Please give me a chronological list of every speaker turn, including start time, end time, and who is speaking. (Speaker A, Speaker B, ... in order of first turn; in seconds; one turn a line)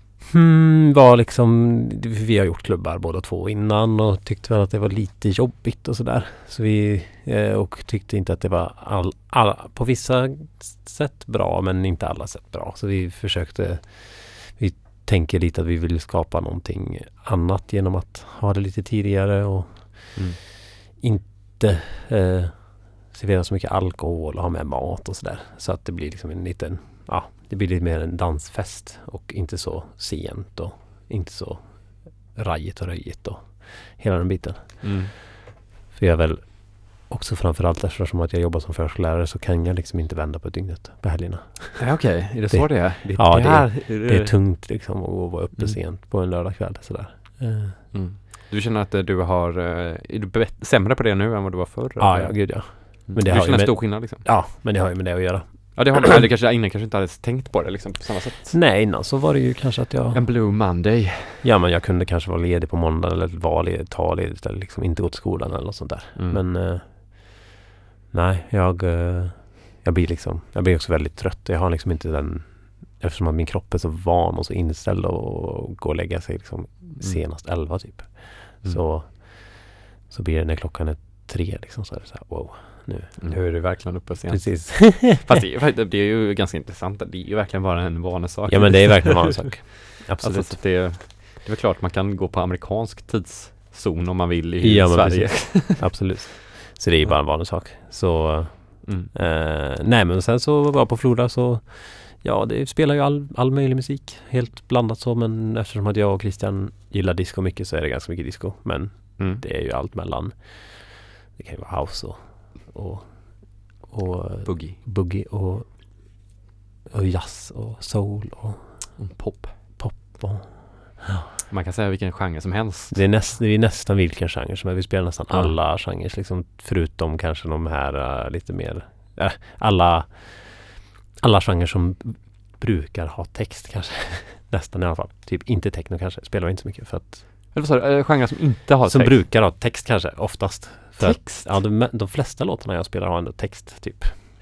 Speaker A: 0.3-20.5
Speaker A: 21.0-35.3
Speaker B: 34.8-35.1
Speaker A: 35.9-47.9
Speaker B: 41.8-44.4
Speaker B: 47.9-54.4
Speaker A: 52.0-56.2
Speaker B: 55.7-58.6
Speaker A: 58.5-60.2
Speaker B: 60.1-61.5
Speaker A: 61.4-67.5
Speaker B: 66.2-66.4
Speaker A: 68.1-85.3
Speaker B: 77.0-77.3
Speaker B: 83.2-96.1
Speaker A: 88.5-90.6
Speaker A: 94.6-116.2
Speaker B: 98.8-99.1
Speaker B: 109.2-109.4
Speaker B: 114.4-114.8
Speaker A: 116.9-121.3
Speaker B: 119.0-119.8
Speaker B: 121.5-123.1
Speaker A: 122.9-137.3
Speaker B: 137.5-139.2
Speaker A: 138.8-144.2
Speaker B: 141.0-141.6